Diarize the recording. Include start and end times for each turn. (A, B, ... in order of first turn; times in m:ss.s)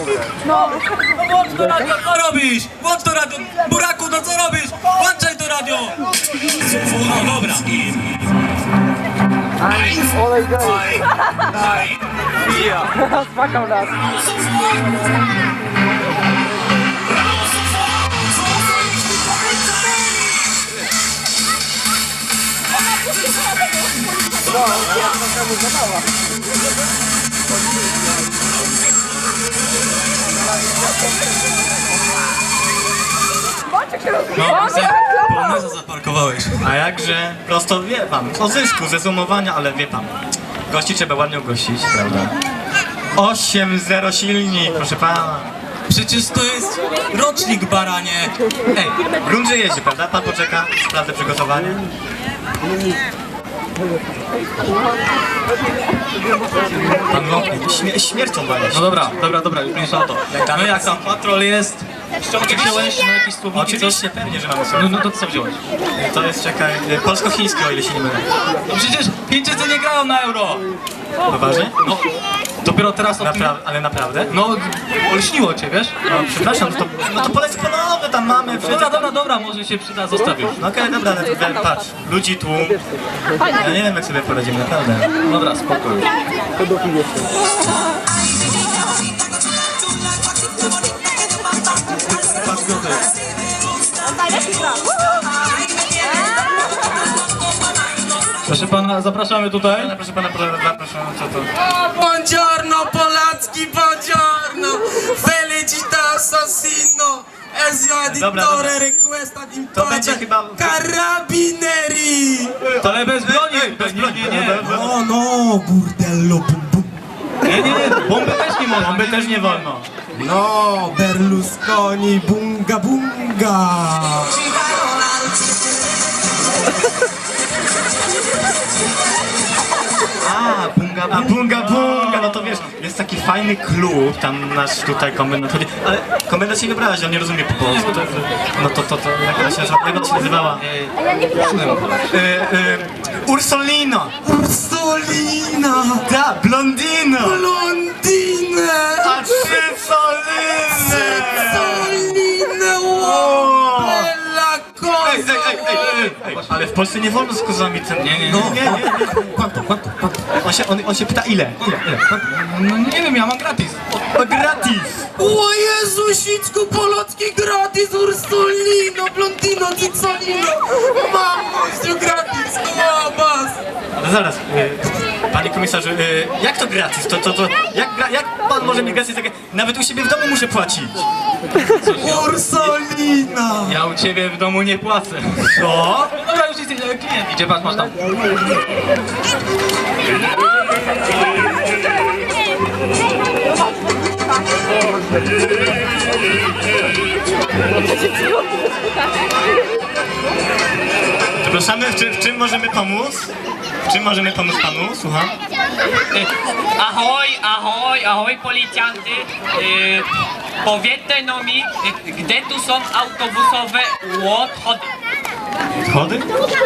0:01.2-0:06.0 A
0:06.7-0:08.0 A
0:34.3-0:36.6 A
0:36.6-0:40.1 B
0:40.7-0:42.4 B
0:43.1-0:45.5 B
0:45.9-0:48.4 A
0:48.7-0:51.9 B
0:57.1-0:58.9 B
0:58.7-1:04.0 A
1:00.3-1:01.2 B
1:02.4-1:02.9 B
1:03.5-1:05.0 B
1:04.7-1:05.6 A
1:06.0-1:08.3 B
1:08.7-1:10.6 A
1:11.3-1:11.8 B
1:12.6-1:13.6 A
1:13.2-1:14.3 B
1:14.3-1:16.0 A
1:16.1-1:19.1 B
1:18.6-1:20.6 A
1:20.6-1:22.8 B
1:23.5-1:25.1 B
1:25.2-1:26.1 A
1:32.2-1:33.0 A
1:38.4-1:39.9 A
1:39.6-1:41.5 B
1:41.6-1:52.6 C
1:48.0-1:48.8 B
1:49.7-1:50.9 B
1:52.6-1:54.7 A
1:52.8-1:55.0 B
1:54.6-1:56.9 C
1:57.4-1:59.7 A
1:58.8-1:59.9 B
2:00.2-2:04.6 C
2:10.2-2:12.7 A
2:11.1-2:20.6 B
2:17.6-2:18.3 A
2:19.4-2:19.7 A
2:20.3-2:22.0 A
2:22.1-2:24.1 B
2:24.2-2:26.1 C
2:26.0-2:27.5 B
2:27.2-2:29.7 C
2:29.0-2:32.2 B
2:30.7-2:35.7 C
2:33.0-2:34.1 B
2:35.0-2:39.4 B
2:35.0-2:36.6 A
2:38.0-2:38.7 A
2:38.3-2:40.4 C
2:40.4-2:42.0 B
2:41.6-2:43.8 A
2:43.9-2:45.1 B
2:45.2-2:53.6 C
2:54.0-3:01.1 B
3:01.6-3:02.8 A
3:02.0-3:03.8 C
3:03.6-3:05.6 A
3:05.4-3:06.1 B
3:06.2-3:08.1 A
3:21.4-3:23.3 B
3:23.9-3:25.4 B
3:26.1-3:30.1 D
3:30.6-3:34.9 D
3:35.8-3:36.3 B